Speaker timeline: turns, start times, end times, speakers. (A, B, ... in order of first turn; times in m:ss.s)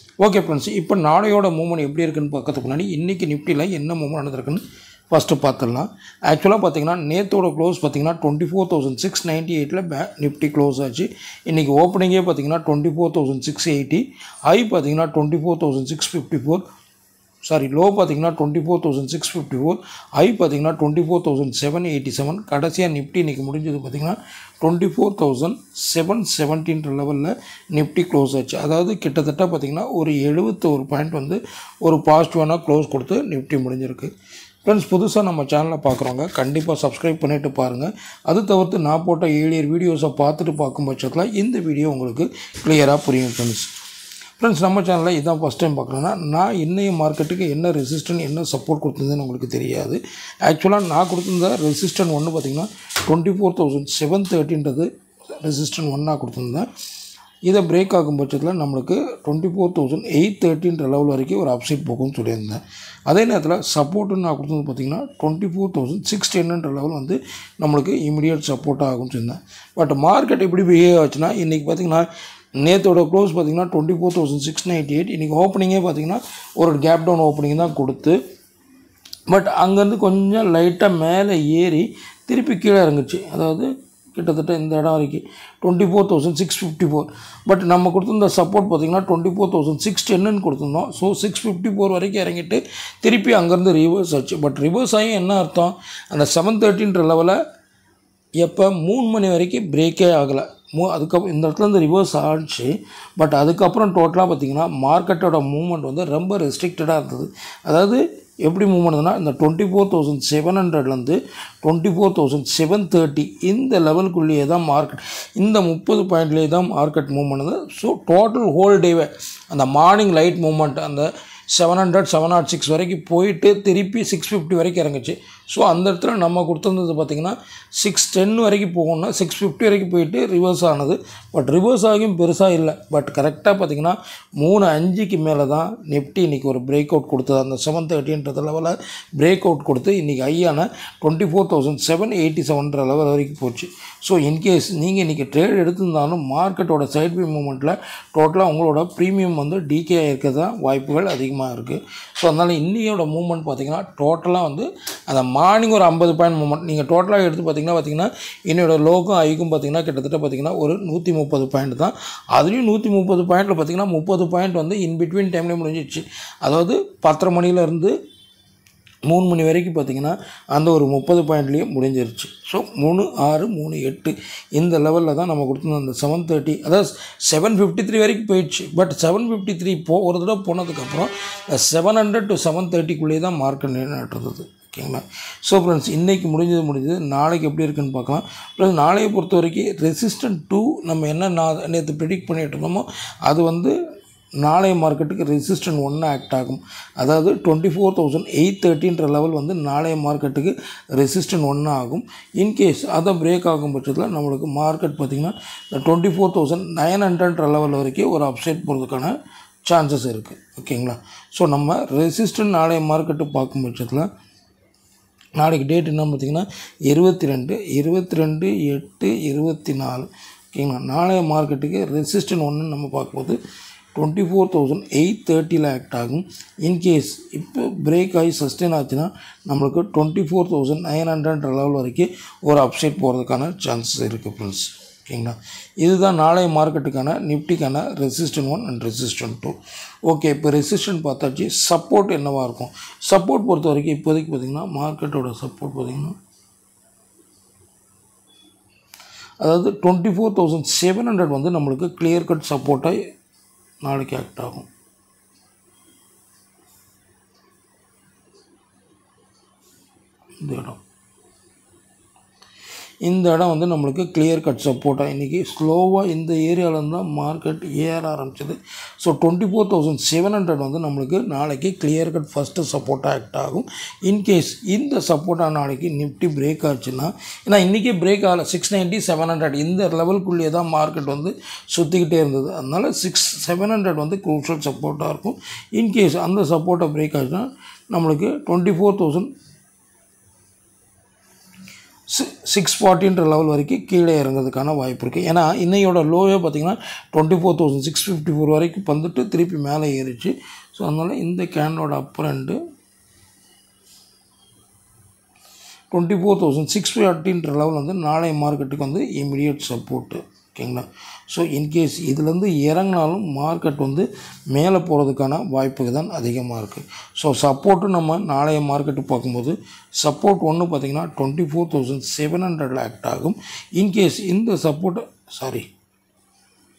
0:00.2-0:16.6 A
0:17.4-0:34.1 A
0:34.6-0:43.7 A
0:44.4-0:54.9 A
0:55.4-0:56.7 A
0:57.4-1:12.1 A
1:12.6-1:18.2 A
1:19.3-1:37.4 A
1:38.4-2:48.0 A
2:49.1-3:13.8 A
3:14.4-3:34.1 A
3:35.4-3:43.4 A
3:44.0-4:06.2 A
4:09.4-4:13.0 A
4:13.8-4:14.7 A
4:20.4-4:20.8 A
4:23.0-4:49.3 A
4:52.1-5:02.6 A
5:05.9-5:25.7 A